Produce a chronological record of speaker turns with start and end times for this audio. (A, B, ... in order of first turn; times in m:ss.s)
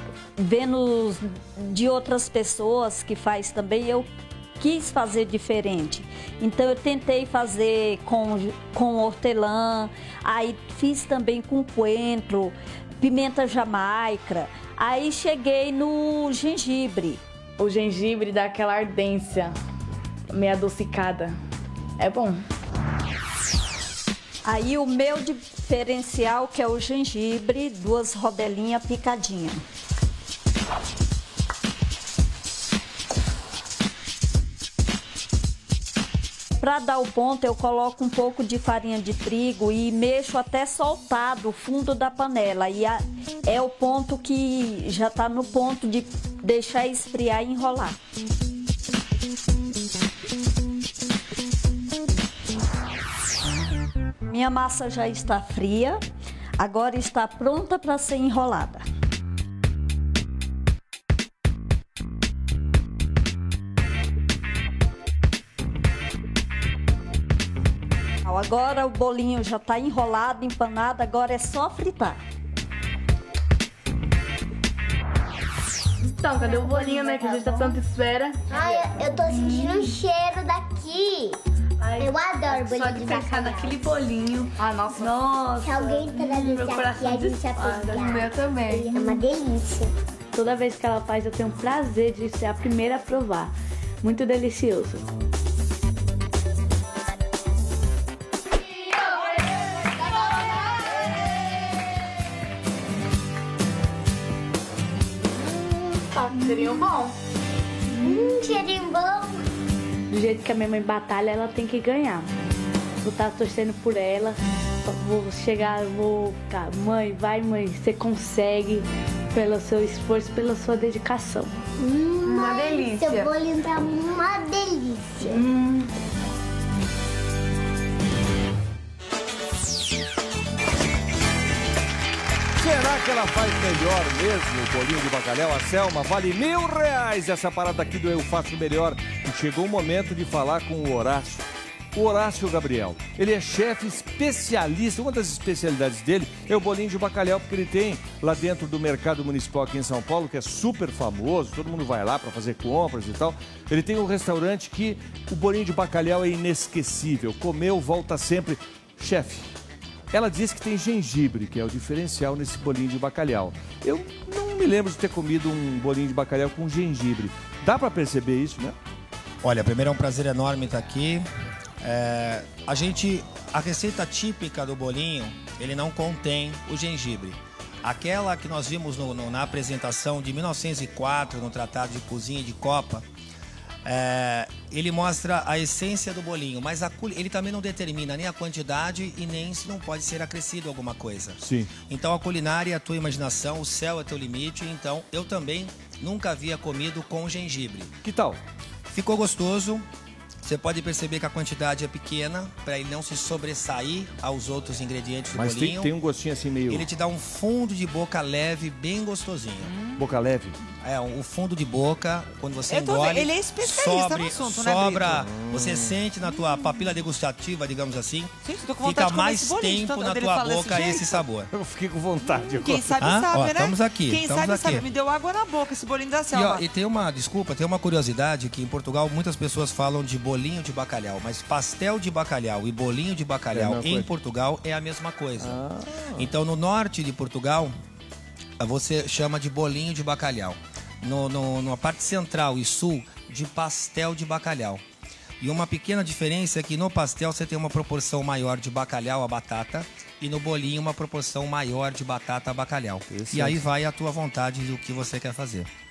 0:00.4-0:04.1 A
0:04.6-0:17.2 A
0:17.6-0:19.5 B
0:20.3-0:21.4 B
0:22.0-0:22.4 B
0:24.4-0:29.6 A
0:36.6-0:48.0 A
0:54.3-0:56.0 A
0:56.6-0:58.8 A
1:08.2-1:12.2 A
1:16.1-1:18.5 B
1:16.4-1:17.6 C
1:18.5-1:21.4 C
1:19.4-1:19.7 B
1:21.8-1:29.1 B
1:22.0-1:23.8 C
1:25.6-1:29.9 C
1:30.3-1:35.1 B
1:46.2-1:46.6 C
1:48.0-1:49.4 C
1:50.1-1:52.3 B
1:53.0-2:01.6 B
2:01.8-2:05.4 C
2:02.3-2:03.3 B
2:05.2-2:05.9 B
2:12.6-2:39.5 D
2:40.1-2:48.8 D
2:49.4-2:51.2 E
2:51.8-3:03.0 E
3:03.8-3:17.9 E
3:11.4-3:11.7 D
3:18.0-3:18.4 D
3:18.9-3:19.8 E
3:20.4-3:25.9 E
3:25.3-3:26.8 D
3:26.7-3:29.7 E
3:29.6-3:30.0 F
3:30.0-3:30.6 D
3:30.8-3:41.5 E
3:32.7-3:35.2 F
3:35.2-3:35.9 D
3:38.4-3:41.2 F
3:41.5-3:42.9 D
3:42.6-3:46.6 F
3:43.0-3:44.8 E
3:46.3-3:55.6 E
3:53.5-3:54.1 D
3:55.4-3:56.2 D
3:56.1-3:57.7 E
3:58.6-4:04.8 E
4:05.4-4:15.7 E
4:13.1-4:13.6 D